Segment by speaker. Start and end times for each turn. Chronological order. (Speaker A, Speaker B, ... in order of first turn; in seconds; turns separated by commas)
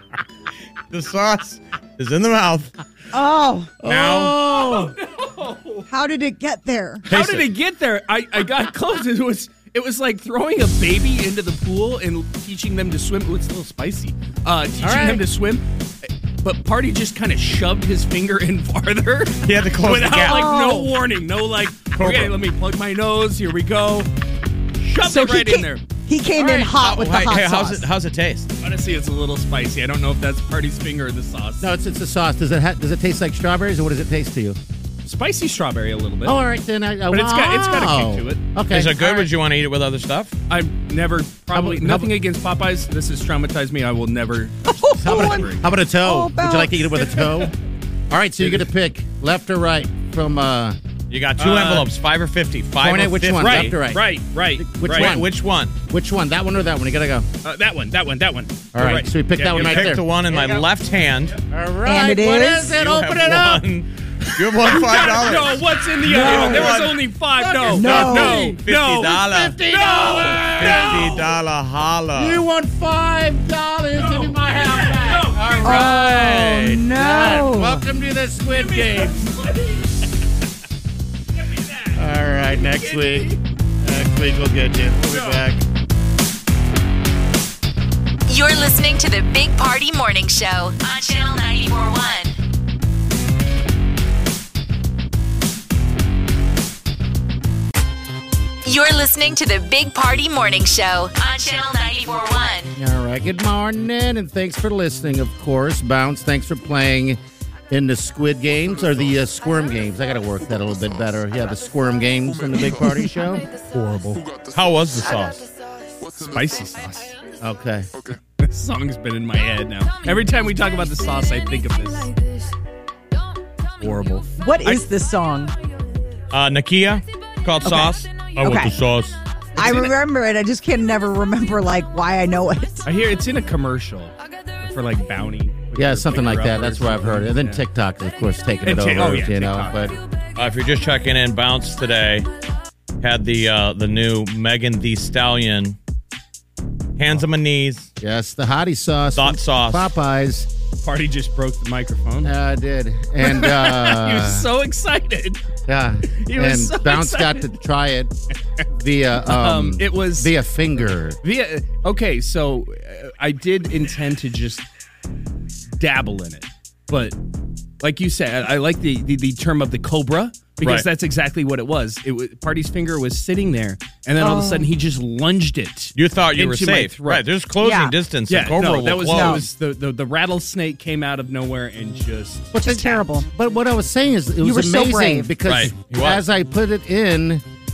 Speaker A: 0.9-2.7, Speaker B: 3.1-3.7, Speaker C: 3.8-5.0, Speaker A: 3.8-4.4, Speaker D: 4.4-5.8, Speaker B: 5.9-7.0, Speaker D: 7.1-15.6, Speaker A: 7.1-7.5, Speaker C: 14.8-15.2, Speaker D: 16.4-24.1, Speaker A: 19.4-20.4, Speaker B: 20.3-20.9, Speaker A: 21.9-22.3, Speaker D: 24.8-25.8, Speaker B: 25.0-27.8, Speaker A: 26.4-28.5, Speaker D: 28.6-31.7, Speaker C: 31.6-34.6, Speaker D: 35.0-36.4, Speaker C: 36.2-39.3, Speaker D: 37.1-38.4, Speaker A: 38.7-40.4, Speaker D: 40.5-45.7, Speaker C: 41.5-42.1, Speaker B: 44.6-47.4, Speaker C: 45.0-47.5, Speaker C: 48.1-50.8, Speaker D: 48.4-48.7, Speaker A: 51.1-53.8, Speaker D: 51.4-51.9, Speaker C: 52.8-55.3, Speaker D: 53.3-55.2, Speaker A: 54.8-55.7, Speaker C: 55.9-57.3, Speaker D: 57.4-60.7, Speaker C: 58.7-60.0, Speaker A: 59.5-61.4, Speaker C: 61.5-63.7, Speaker B: 61.8-62.8, Speaker A: 62.8-67.0, Speaker D: 64.7-71.4, Speaker B: 66.0-66.7, Speaker C: 67.4-71.2, Speaker B: 67.7-68.5, Speaker A: 67.7-69.6, Speaker A: 70.4-72.4, Speaker C: 72.1-79.3, Speaker D: 73.9-76.0, Speaker B: 75.6-77.8, Speaker D: 78.4-79.9, Speaker D: 81.5-83.4, Speaker C: 82.0-85.6, Speaker D: 84.9-85.5, Speaker E: 88.3-92.4, Speaker E: 98.6-102.7, Speaker C: 102.8-113.5, Speaker D: 113.5-114.3, Speaker A: 114.4-115.4, Speaker D: 116.1-117.1, Speaker C: 117.4-117.9, Speaker D: 118.4-122.1, Speaker D: 123.8-124.8, Speaker B: 124.4-125.5, Speaker A: 126.3-129.2, Speaker B: 127.6-128.7, Speaker D: 129.6-129.9, Speaker B: 129.6-132.9, Speaker D: 132.8-137.6, Speaker C: 135.7-139.9, Speaker D: 138.6-139.9, Speaker A: 140.4-142.3, Speaker A: 143.0-145.8, Speaker A: 147.0-147.9, Speaker C: 148.0-150.5, Speaker A: 149.1-149.8, Speaker D: 150.8-152.3, Speaker C: 152.2-154.5, Speaker D: 153.2-155.4, Speaker C: 155.7-158.1, Speaker D: 156.1-157.6, Speaker C: 158.7-161.2, Speaker D: 159.1-164.6, Speaker D: 165.8-167.2, Speaker D: 167.8-177.3, Speaker A: 170.6-170.9, Speaker B: 174.2-174.7, Speaker A: 175.9-179.4, Speaker B: 177.6-177.9, Speaker D: 178.3-183.1, Speaker B: 179.1-179.5, Speaker B: 182.5-183.2, Speaker C: 182.6-187.4, Speaker B: 184.4-185.3, Speaker A: 185.4-186.2